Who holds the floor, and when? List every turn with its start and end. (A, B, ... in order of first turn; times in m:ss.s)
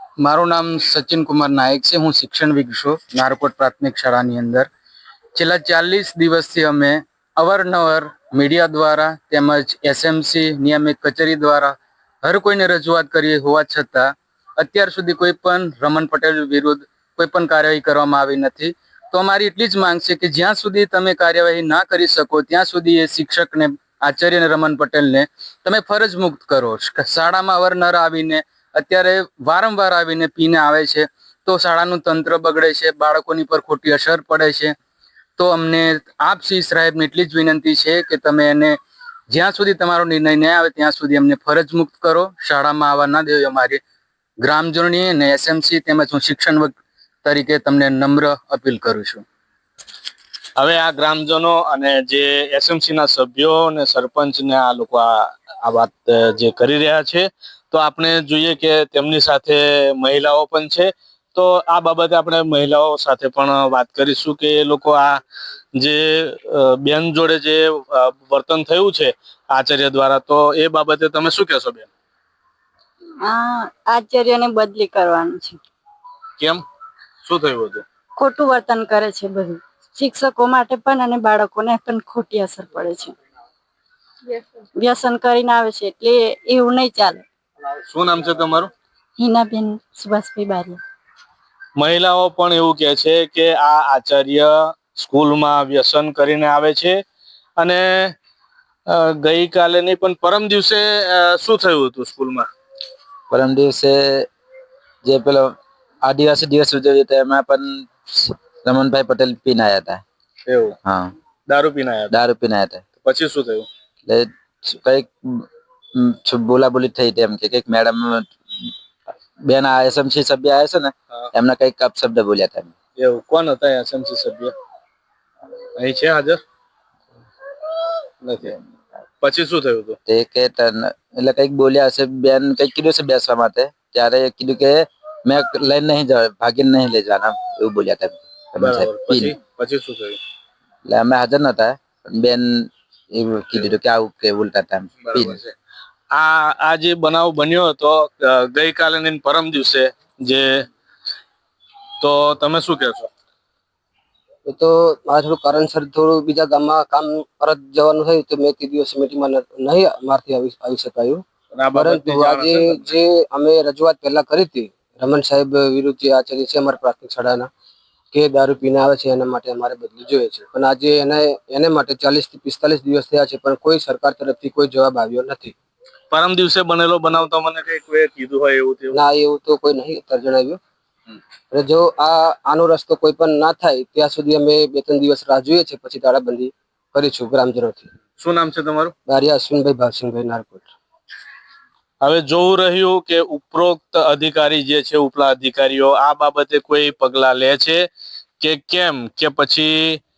0:00.2-0:04.7 A
0:05.3-0:34.7 A
0:35.4-0:38.8 A
0:39.3-0:43.8 A
0:44.4-0:46.7 A
0:47.2-0:49.2 A
0:50.6-1:05.2 B
1:05.8-1:11.9 B
1:13.2-1:15.6 C
1:17.2-1:17.8 B
1:18.2-1:23.1 C
1:24.8-1:27.2 C
1:27.9-1:28.7 B
1:29.2-1:30.8 C
1:31.8-1:37.0 B
1:37.6-1:38.2 B
1:38.9-1:42.5 B
1:43.3-1:44.3 D
1:45.0-1:45.5 D
1:46.0-1:50.0 D
1:50.4-1:50.8 B
1:50.8-1:51.1 D
1:51.5-1:52.1 B
1:52.1-1:52.8 D
1:53.0-1:53.7 B
1:54.1-1:55.4 D
1:56.0-1:58.3 D
1:59.5-2:02.7 D
2:03.0-2:04.5 B
2:05.8-2:06.4 B
2:08.2-2:08.6 B
2:09.2-2:10.0 B
2:10.1-2:19.3 D
2:18.6-2:20.2 B
2:20.8-2:25.4 D
2:25.0-2:25.5 B
2:26.1-2:30.7 B
2:32.0-2:33.1 B
2:34.5-2:47.5 E
2:41.5-2:42.8 B
2:48.1-2:55.5 E
2:56.1-2:59.0 B
2:58.9-3:00.6 E
3:01.5-3:07.9 E
3:08.2-3:08.9 B
3:09.1-3:10.7 E
3:12.0-3:17.9 B
3:18.4-3:20.0 B